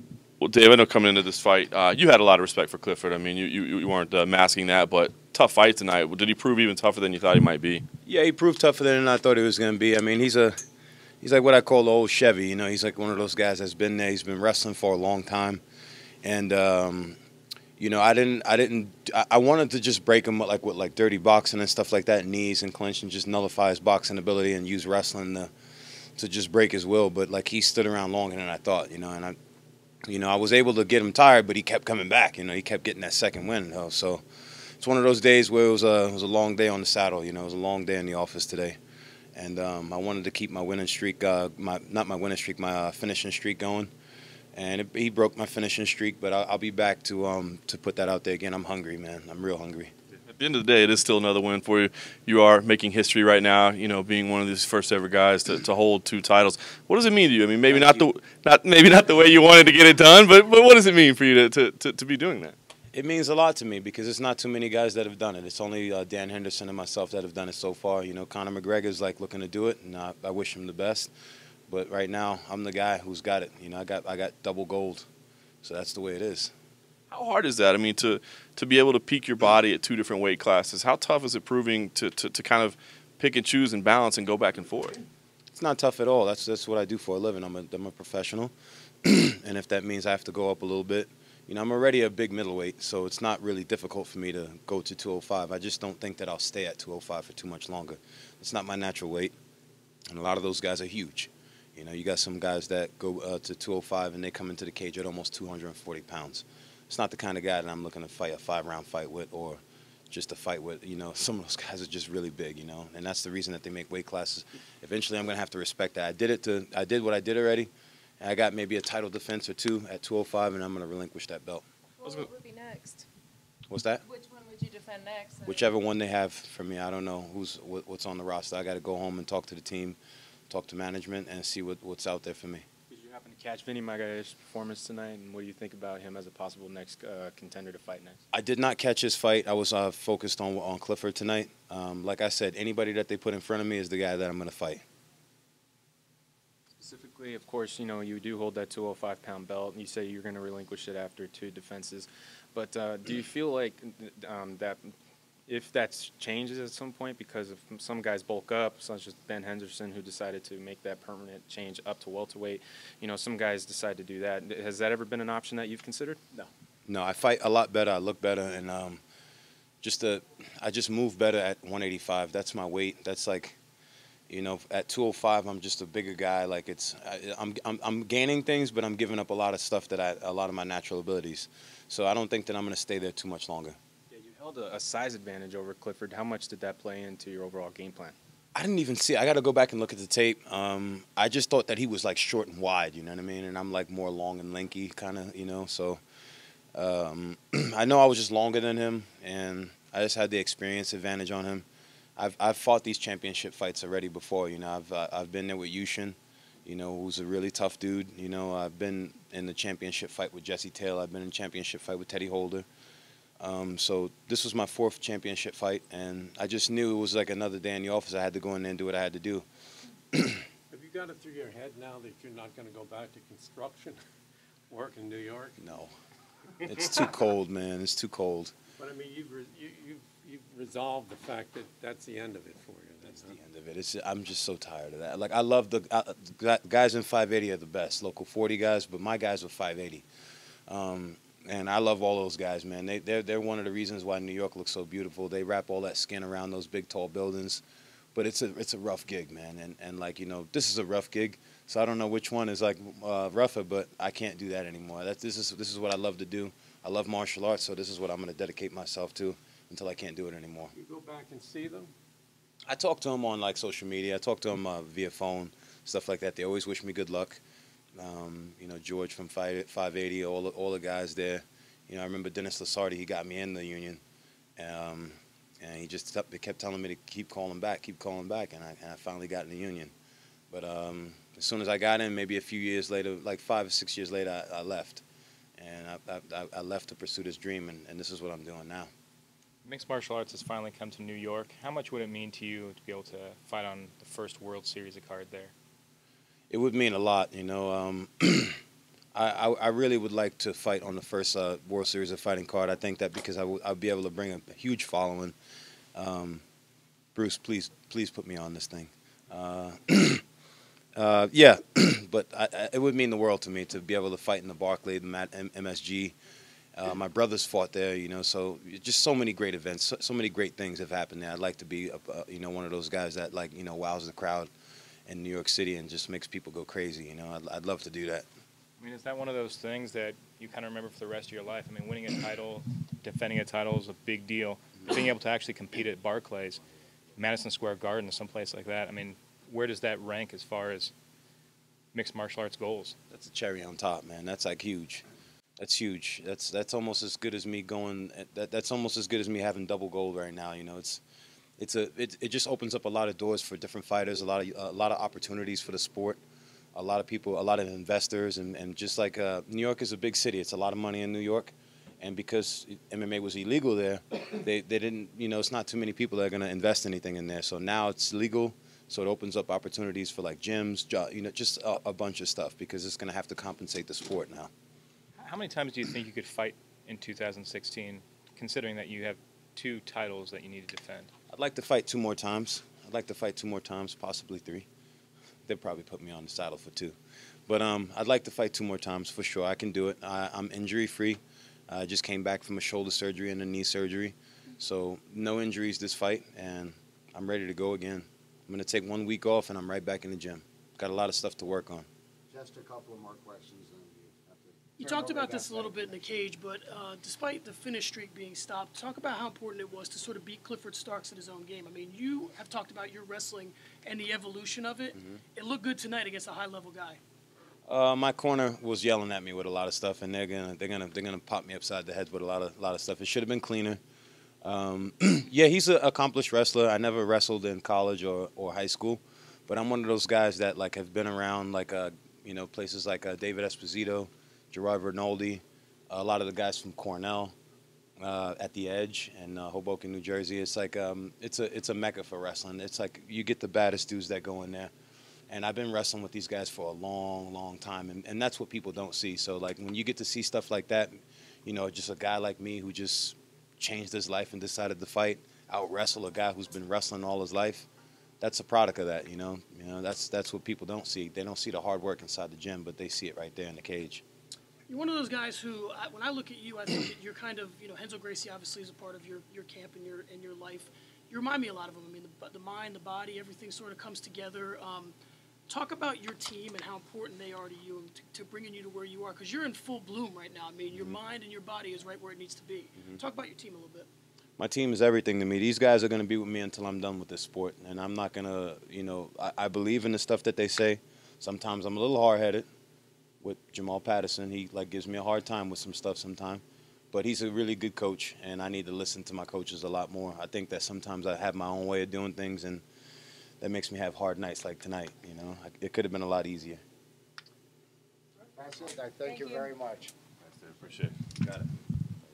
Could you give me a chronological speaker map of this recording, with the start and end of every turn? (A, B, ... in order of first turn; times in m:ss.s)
0:00.4-0:07.8 A
0:08.0-0:10.6 B
0:11.2-0:15.6 B
0:16.2-0:17.2 B
0:17.8-0:25.5 B
0:26.2-0:29.4 B
0:30.0-0:34.2 B
0:34.8-0:38.8 B
0:39.4-0:43.9 B
0:44.5-0:49.9 B
0:50.3-1:02.6 A
0:57.7-0:58.1 B
1:02.9-1:11.1 B
1:11.7-1:15.1 B
1:15.6-1:16.5 B
1:17.1-1:25.0 A
1:25.5-1:28.5 B
1:29.0-1:39.3 B
1:40.1-2:01.6 B
2:02.0-2:03.1 C
2:03.7-2:04.0 B
2:04.0-2:05.6 C
2:05.4-2:10.0 B
2:10.5-2:12.6 B
2:12.9-2:18.2 D
2:18.3-2:24.8 B
2:26.8-2:34.9 D
2:35.5-2:46.5 D
2:46.9-2:49.0 B
2:49.8-2:53.6 B
2:54.3-3:03.8 B
3:04.1-3:08.2 D
3:08.6-3:16.0 B
3:16.7-3:21.7 B
3:22.2-3:32.7 B
3:33.4-3:39.4 B
3:40.1-3:40.4 B
3:40.7-3:44.0 E
3:44.7-3:45.6 E
3:45.6-3:45.9 B
3:46.6-3:48.5 B
3:48.8-3:53.3 E
3:53.1-4:00.0 B
4:00.7-4:07.6 B
4:08.2-4:20.7 B
4:20.8-4:21.9 E
4:22.7-4:27.4 B
4:28.0-4:34.0 B
4:34.6-4:39.9 B
4:40.5-4:45.0 B
4:45.6-4:48.9 B
4:49.6-4:55.5 F
4:56.5-4:58.6 B
4:59.1-5:05.3 B
5:05.9-5:06.4 B
5:07.1-5:10.2 B
5:10.9-5:16.1 B
5:16.8-5:24.5 B
5:25.1-5:28.2 B
5:28.8-5:36.6 F
5:37.2-5:40.9 F
5:41.9-5:43.0 F
5:43.1-5:45.0 B
5:45.6-5:51.0 B
5:51.6-5:56.2 B
5:56.8-6:14.5 B
6:15.2-6:21.1 F
6:21.3-6:24.7 B
6:25.4-6:26.9 B
6:27.5-6:41.9 B
6:42.3-6:46.0 G
6:44.8-6:57.0 H
6:57.6-7:03.8 B
7:04.4-7:17.3 B
7:18.0-7:24.7 B
7:25.3-7:37.7 B
7:38.2-7:44.0 B
7:44.7-7:55.0 H
7:55.5-8:03.9 H
8:04.4-8:12.4 B
8:13.2-8:22.6 B
8:23.4-8:26.6 B
8:28.3-8:29.9 G
8:29.0-8:29.5 C
8:30.2-8:31.0 A